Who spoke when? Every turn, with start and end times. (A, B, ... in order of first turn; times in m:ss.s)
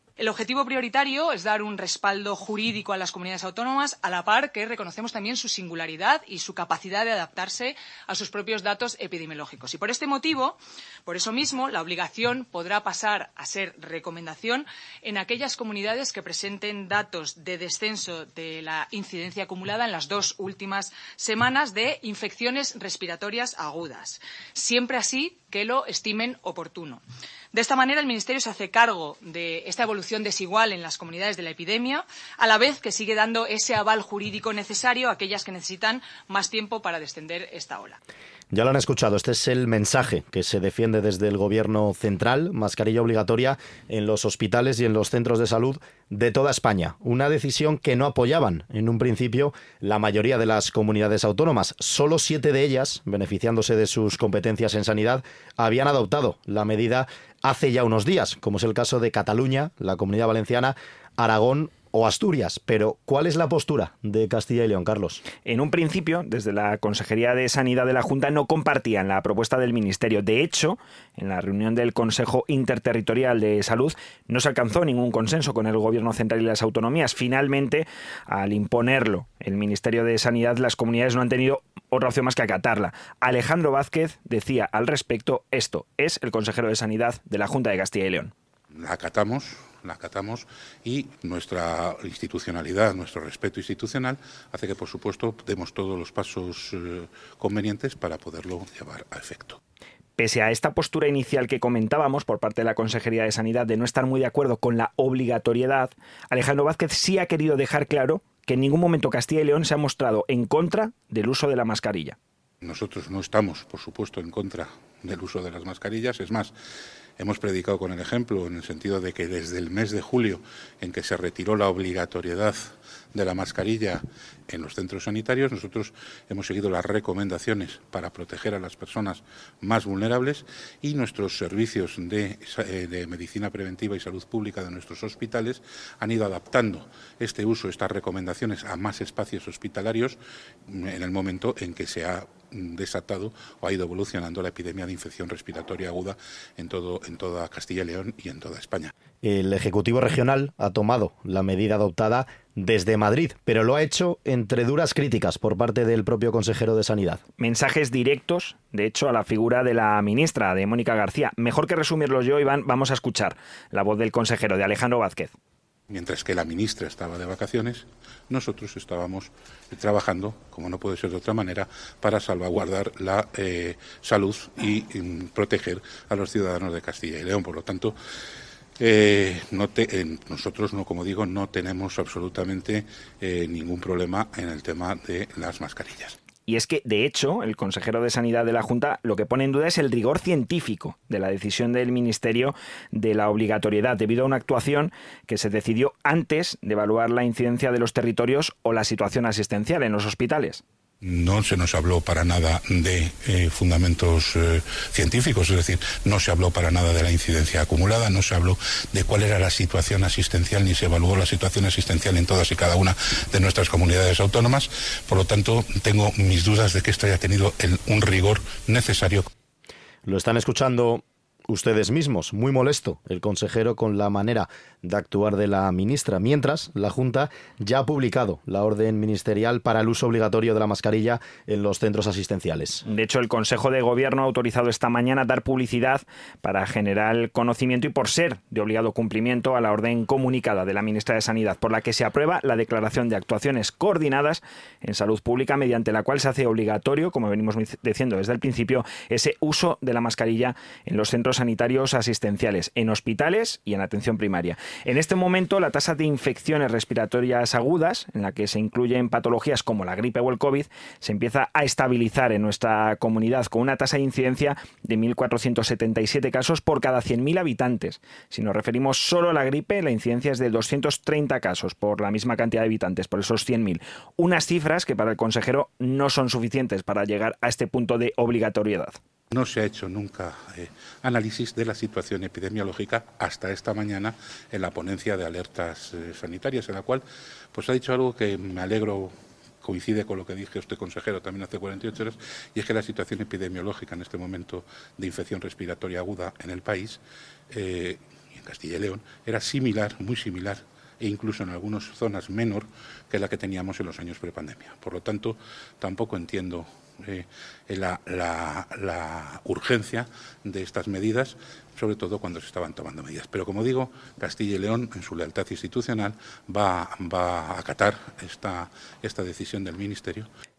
0:00.2-0:38.0 A
0:38.5-1:05.2 B
1:05.4-1:28.3 C
1:28.7-1:39.6 D
1:40.2-1:52.2 C
1:52.6-1:56.5 D
1:57.2-2:28.9 D
2:29.2-2:37.2 B
2:37.4-2:45.3 C
2:45.9-2:57.9 D
2:58.8-3:06.2 D
3:06.5-3:20.6 C
3:21.0-3:39.3 D
3:40.0-3:52.8 B
3:52.8-4:39.0 C
4:39.3-4:57.0 D
4:57.5-5:20.3 D